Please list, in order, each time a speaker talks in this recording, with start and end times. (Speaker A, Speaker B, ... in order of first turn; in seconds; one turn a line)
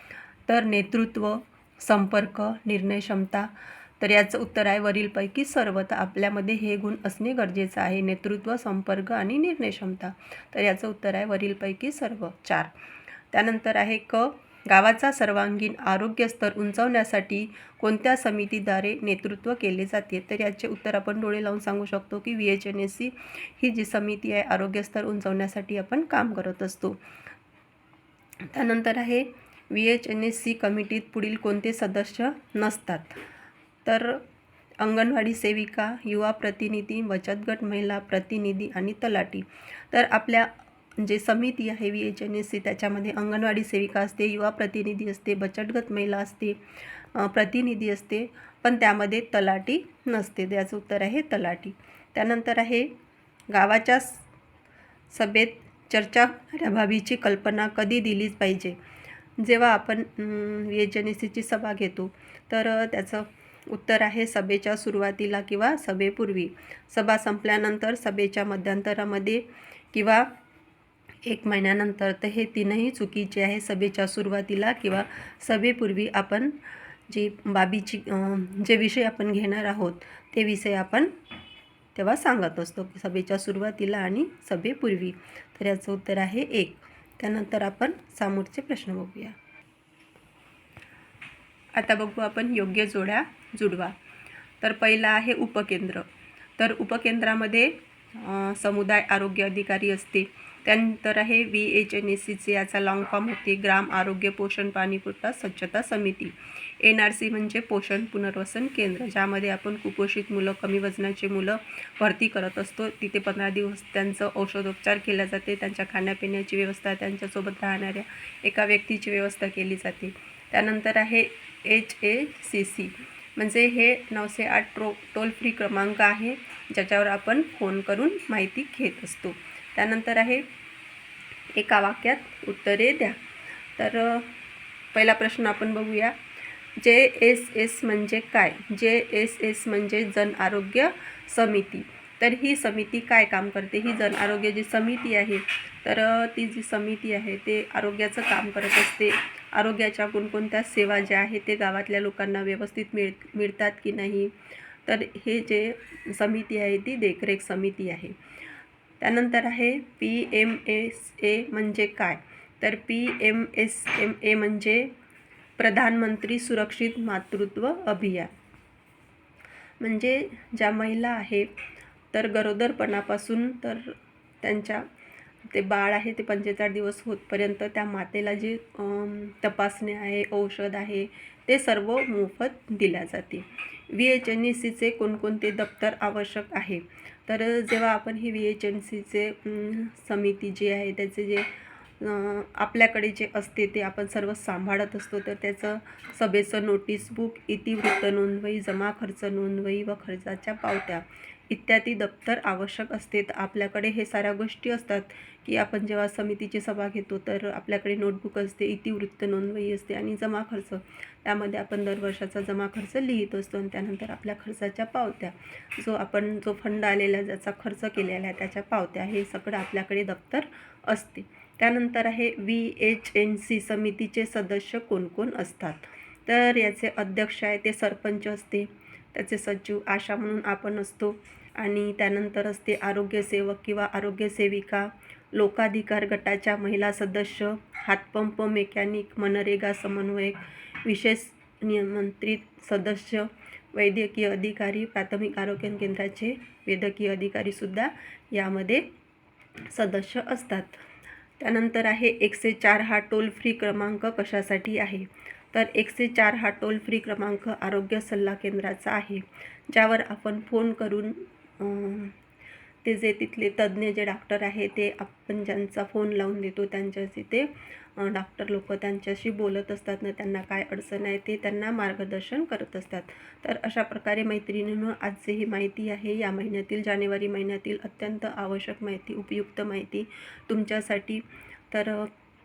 Speaker A: 0.5-12.7
Speaker A: 13.3-27.0
Speaker A: 28.4-33.2
Speaker A: 33.9-34.2
Speaker A: 34.8-46.6
Speaker A: 47.1-52.9
Speaker A: 53.5-54.2
Speaker A: 55.1-58.8
Speaker A: 59.4-70.3
Speaker A: 71.2-76.6
Speaker A: 77.1-81.1
Speaker A: 82.0-89.4
Speaker A: 91.8-94.0
Speaker A: 94.6-130.5
Speaker A: 131.5-133.2
Speaker A: 133.8-134.3
Speaker A: 134.9-136.2
Speaker A: 136.8-154.3
Speaker A: 154.9-158.2
Speaker A: 159.0-164.9
Speaker A: 165.6-168.3
Speaker A: 169.8-171.5
Speaker A: 172.1-174.8
Speaker A: 175.5-191.5
Speaker A: 192.0-248.9
Speaker A: 249.7-250.8
Speaker A: 251.4-262.2
Speaker A: 262.8-282.1